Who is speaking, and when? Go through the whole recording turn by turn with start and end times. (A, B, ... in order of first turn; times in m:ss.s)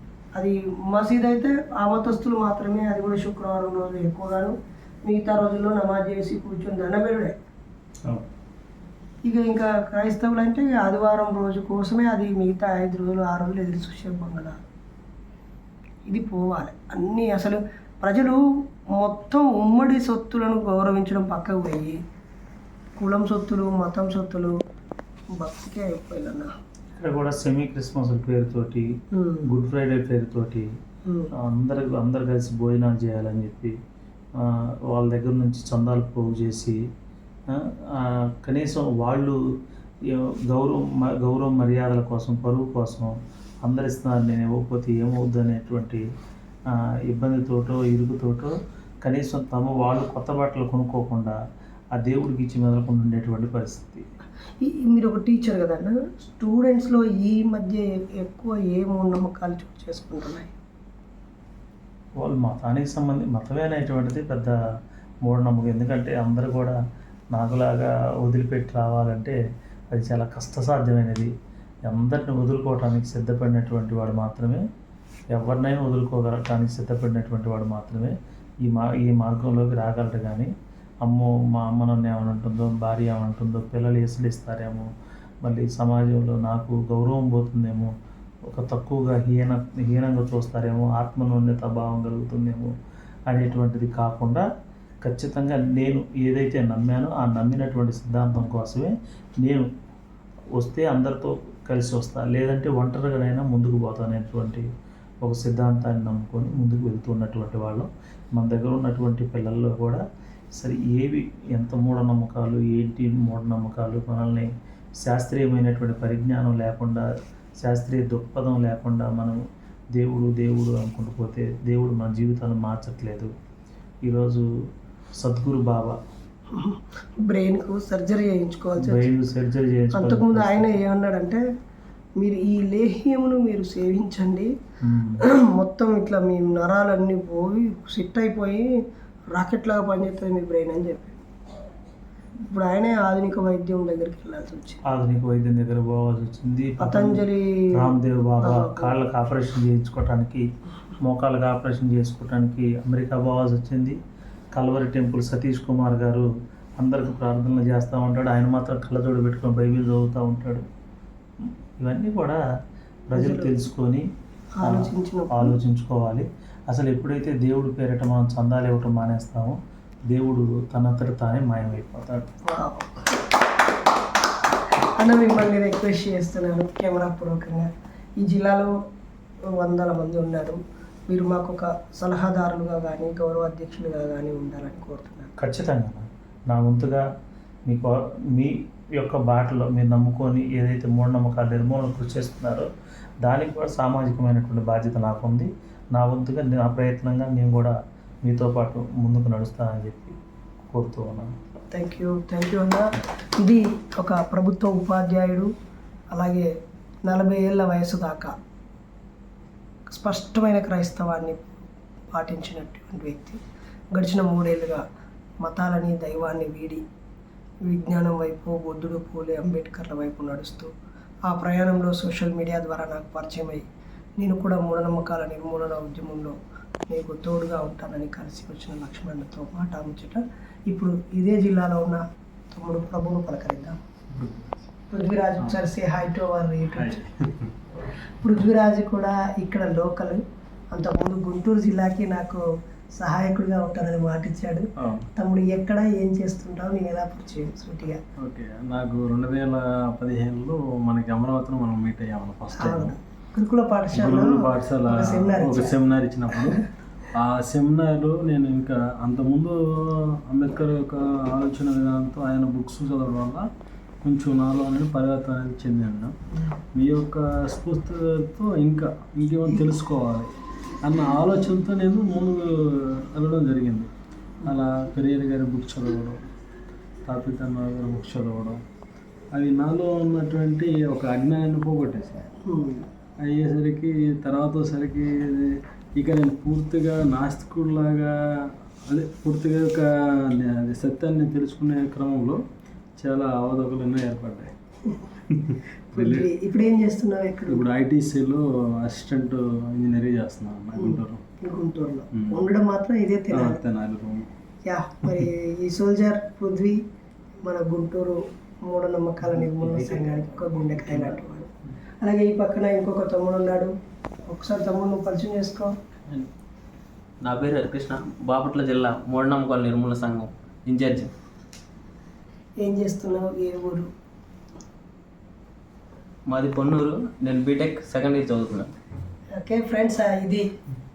0:00.4-0:07.4 A
0:09.2-0:14.6 A
0:16.1-0:18.4 A
0:18.9-0:22.0 A
0:23.0-0:24.5 A
0:25.4-0:26.5 A
0:27.0-0:28.9 B
0:29.2-0:29.5 A
0:29.5-0:30.7 B
0:31.4-0:33.8 B
0:34.4-0:36.8 B
0:37.5-0:39.4 B
0:40.1-0:46.0 B
0:46.7-0:51.4 B
0:52.0-0:54.0 B
0:54.6-1:00.5 A
1:02.2-1:04.6 B
1:05.2-1:06.8 B
1:07.3-1:09.4 B
1:09.9-1:11.3 B
1:11.9-1:14.6 B
1:15.3-1:20.5 B
1:21.0-1:24.9 B
1:25.4-1:27.9 B
1:28.5-1:32.7 B
1:33.3-1:34.4 B
1:35.0-1:39.7 B
1:40.6-1:44.7 B
1:45.2-1:50.0 B
1:50.6-1:54.5 B
1:55.0-1:57.1 B
1:57.6-1:59.4 B
1:59.9-2:03.3 B
2:04.0-2:04.4 B
2:05.2-2:06.0 B
2:06.6-2:09.1 A
2:08.8-2:10.8 B
2:09.9-2:11.4 A
2:12.2-2:14.5 A
2:14.8-2:15.2 B
2:15.2-2:18.6 A
2:19.3-2:21.2 A
2:22.4-2:24.8 A
2:24.9-2:30.4 B
2:26.8-2:27.7 A
2:28.4-2:29.0 A
2:31.0-2:34.0 B
2:34.5-2:36.2 B
2:36.8-2:40.6 B
2:41.4-2:42.4 B
2:43.1-2:44.0 B
2:43.1-2:43.5 A
2:44.6-2:45.6 A
2:44.6-2:49.6 B
2:50.1-2:52.2 B
2:52.5-2:53.2 A
2:55.0-2:57.7 A
2:58.2-2:58.7 A
2:59.6-3:05.3 A
3:05.4-3:07.0 B
3:07.7-3:12.7 B
3:13.2-3:17.7 B
3:18.2-3:20.2 B
3:20.7-3:21.3 B
3:21.7-3:25.5 A
3:26.1-3:26.5 A
3:27.1-3:28.3 A
3:29.9-3:31.4 A
3:32.1-3:33.4 A
3:33.9-3:34.8 A
3:35.4-3:36.8 A
3:37.6-3:40.7 A
3:41.3-3:43.7 A
3:44.2-3:46.3 A
3:46.9-3:53.8 A
3:54.9-3:57.0 A
3:58.2-4:00.2 A
4:00.7-4:02.4 A
4:03.0-4:08.0 A
4:08.2-4:12.9 C
4:12.6-4:15.8 A
4:13.9-4:16.5 C
4:17.2-4:19.6 C
4:20.3-4:23.4 C
4:24.1-4:26.1 C
4:26.3-4:26.6 A
4:26.8-4:30.3 C
4:30.8-4:33.9 C
4:34.5-4:36.2 C
4:37.1-4:38.6 C
4:39.3-4:42.2 C
4:42.4-4:42.9 A
4:43.3-4:45.5 C
4:46.0-4:48.1 C
4:48.9-4:49.8 C
4:50.4-4:52.4 C
4:53.0-4:54.5 C
4:55.5-4:56.2 C
4:55.9-4:57.6 A
4:57.5-5:01.2 C
5:00.8-5:03.6 A
5:03.3-5:04.2 C
5:04.7-5:06.8 A
5:07.4-5:13.7 A
5:10.8-5:11.1 C
5:14.3-5:15.7 A
5:17.2-5:21.1 D
5:22.6-5:23.9 A
5:26.3-5:28.7 D
5:29.4-5:30.4 A